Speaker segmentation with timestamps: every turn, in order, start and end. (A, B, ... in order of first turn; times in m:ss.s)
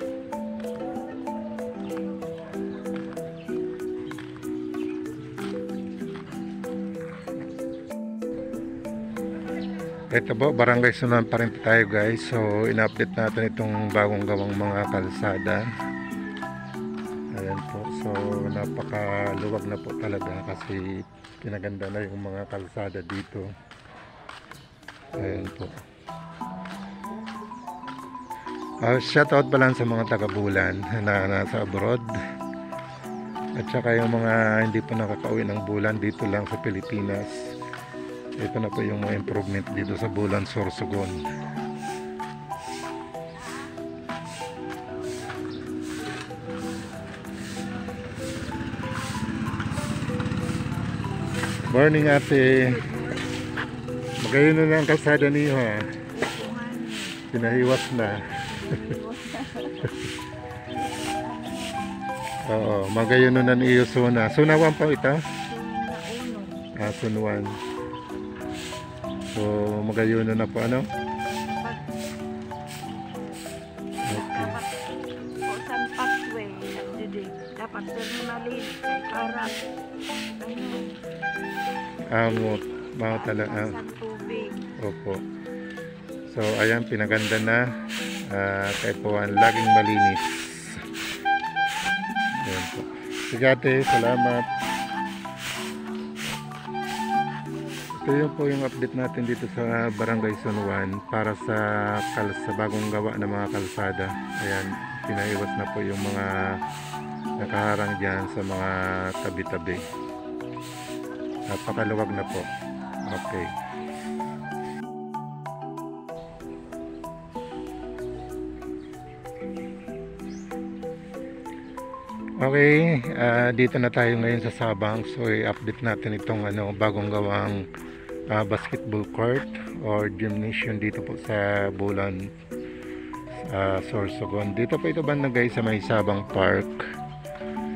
0:10.1-0:15.7 A
0:17.3-0:23.5 A
0:25.2-0:25.8 A
0:28.8-0:32.1 A
0:33.6-0:37.5 A
0:38.4-0:41.2 A
0:51.7-0:52.8 A
0:52.6-0:53.9 B
0:54.2-0:55.9 A
0:56.1-0:59.9 B
0:57.3-0:58.5 A
1:00.7-1:01.9 B
1:02.5-1:05.2 A
1:05.5-1:06.7 B
1:06.8-1:07.6 A
1:09.3-1:10.9 A
1:11.3-1:11.8 B
1:12.8-1:13.5 B
1:14.0-1:19.6 B
1:14.1-1:14.6 A
1:20.4-1:21.0 B
1:22.1-1:23.7 A
1:23.1-1:24.6 B
1:24.8-1:25.2 A
1:26.3-1:27.6 A
1:28.2-1:30.8 A
1:32.4-1:34.5 A
1:38.0-1:46.6 A
1:47.4-1:49.8 A
1:51.5-1:52.5 A
1:53.1-1:53.5 A
2:02.4-2:07.6 A
2:08.3-2:12.3 A
2:13.5-2:16.8 A